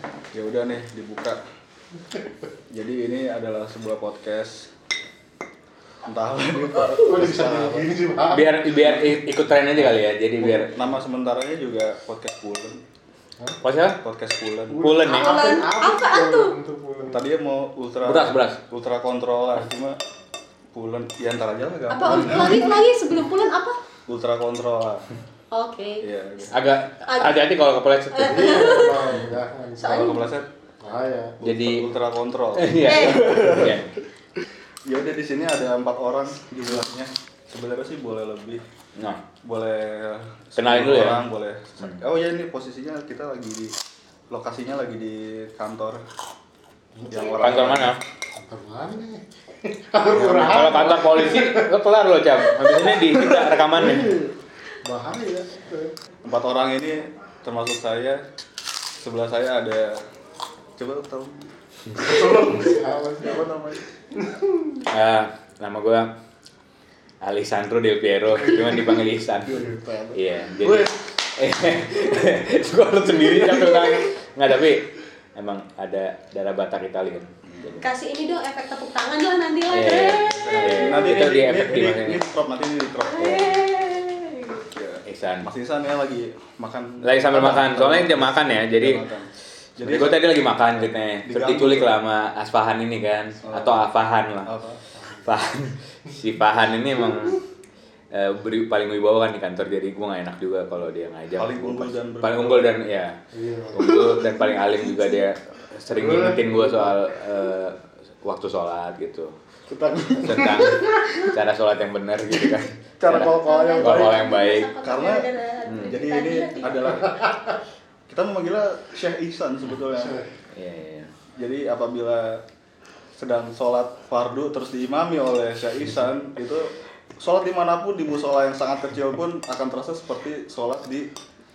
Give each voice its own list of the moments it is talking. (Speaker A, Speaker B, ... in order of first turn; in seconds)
Speaker A: 0.3-1.4, 2.7-4.7, 6.0-7.9, 8.8-9.2, 9.8-12.8, 14.0-14.9, 17.1-20.0, 20.7-22.6, 24.1-25.0, 26.0-26.6, 29.8-30.5, 31.4-33.9, 34.9-38.6, 39.4-43.8, 44.3-46.0, 47.1-48.0, 50.1-51.0, 56.2-58.2, 59.0-60.0, 60.8-63.8, 69.5-71.0, 77.5-77.8, 80.5-83.6, 84.7-90.3, 91.2-92.0, 93.5-93.9, 94.4-94.8, 101.4-102.8, 103.8-104.1, 109.7-111.2, 113.0-115.2, 115.8-117.2, 118.1-120.2, 121.3-122.4, 123.2-131.1
Speaker B: 6.9-8.6, 14.7-17.2, 28.2-30.2, 30.8-31.4, 47.0-47.8, 48.4-51.7, 53.2-55.9, 62.0-63.4, 64.1-64.8, 95.0-95.3, 103.3-104.2, 105.9-107.0, 110.4-110.8, 117.0-117.5, 119.9-120.3
Speaker C: 8.3-10.7, 13.6-14.0, 14.8-15.5, 18.0-18.6, 26.5-28.8, 31.4-31.9, 32.5-33.9, 40.6-41.2, 47.3-48.0, 50.1-54.2, 64.9-66.1, 67.2-77.8, 79.7-82.2, 85.0-85.5, 87.0-89.0, 89.8-94.5, 95.2-97.4, 98.1-103.2, 103.7-109.3, 110.2-114.7, 115.7-115.9, 120.5-121.1
Speaker D: 15.1-16.6, 21.9-23.8, 25.5-26.0, 27.0-27.4, 28.1-29.1, 29.8-30.2, 32.8-33.2, 77.8-81.1, 83.0-84.7, 113.1-117.0